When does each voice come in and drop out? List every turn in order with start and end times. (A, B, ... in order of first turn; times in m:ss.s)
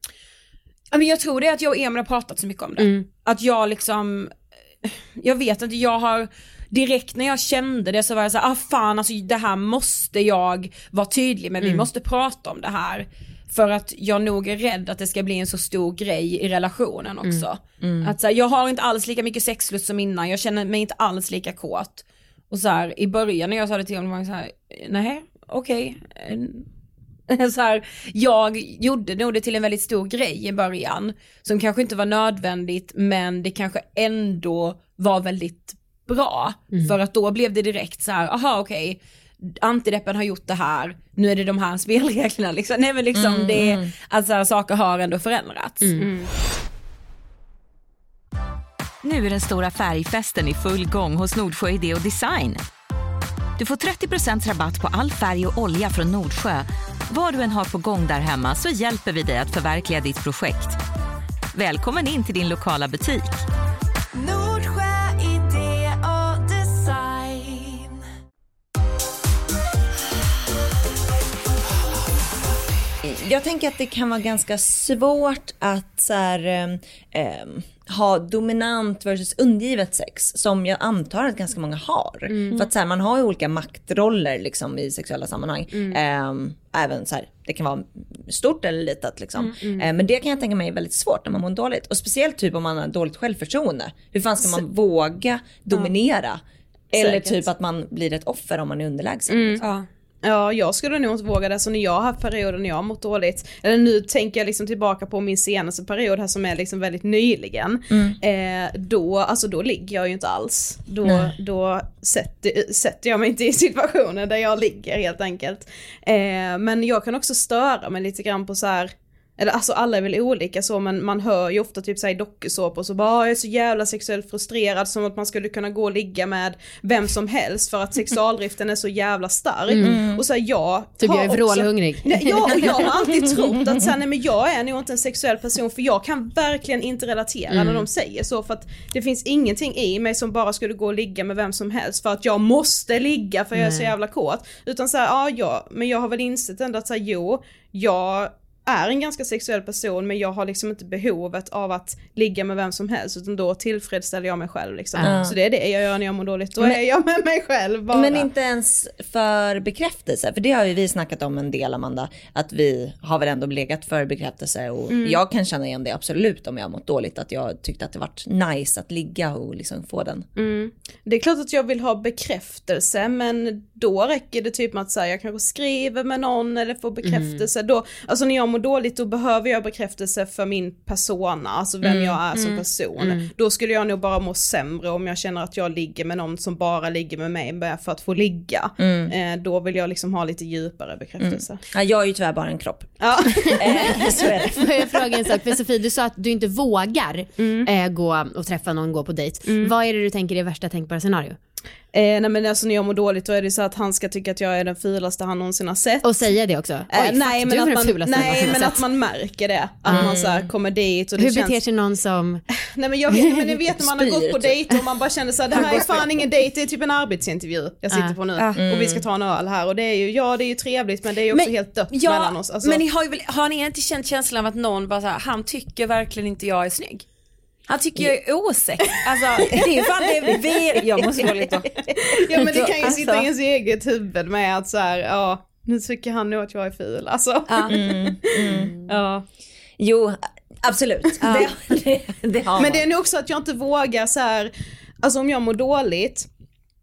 0:00.9-0:26.7 A
0:02.8-0:03.1 B
0:17.8-0:18.2 C
0:27.3-0:46.0 A
0:43.1-0:43.9 C
0:45.8-0:46.1 B
0:46.0-0:46.3 D
0:49.0-0:52.6 E
0:53.6-1:00.8 E
1:01.5-1:03.4 E
1:04.2-1:08.0 E
1:13.0-1:39.6 C
1:22.4-1:22.6 D
1:29.5-1:29.8 D
1:37.0-1:37.4 D
1:39.3-1:39.6 D
1:39.6-1:39.9 A
1:40.2-2:38.3 D
1:47.9-1:48.2 C
1:51.0-1:51.3 C
2:09.7-2:10.0 B
2:09.8-2:10.2 C
2:11.0-2:12.7 B
2:12.6-2:13.8 C
2:17.5-2:17.8 B
2:23.6-2:23.9 B
2:35.0-2:35.4 C
2:37.9-2:50.3 C
2:44.9-2:45.2 D
2:50.4-3:11.6 D
2:57.0-2:57.5 B
3:01.8-3:02.2 C
3:02.3-3:02.6 A
3:03.0-3:03.3 B
3:08.8-3:09.1 C
3:11.2-3:14.7 C
3:13.0-3:14.4 D
3:13.4-3:21.4 B
3:17.4-3:17.7 D
3:19.5-3:19.7 D
3:21.9-3:26.1 D
3:26.0-3:28.8 B
3:26.9-3:31.6 D
3:29.9-3:30.1 B
3:29.9-3:30.5 C
3:31.2-3:32.4 B
3:32.7-3:42.8 D
3:33.1-3:33.6 B
3:33.8-3:34.6 C
3:35.5-3:36.1 A
3:37.9-3:38.2 B
3:38.4-3:38.6 A
3:38.6-3:39.0 C
3:41.3-3:47.1 A
3:47.7-3:53.3 A
3:52.0-3:59.2 D
3:57.5-3:57.8 A
3:57.7-3:58.7 C
3:59.8-4:02.8 C
4:01.2-4:01.5 A
4:02.6-4:04.5 D
4:05.0-4:06.3 D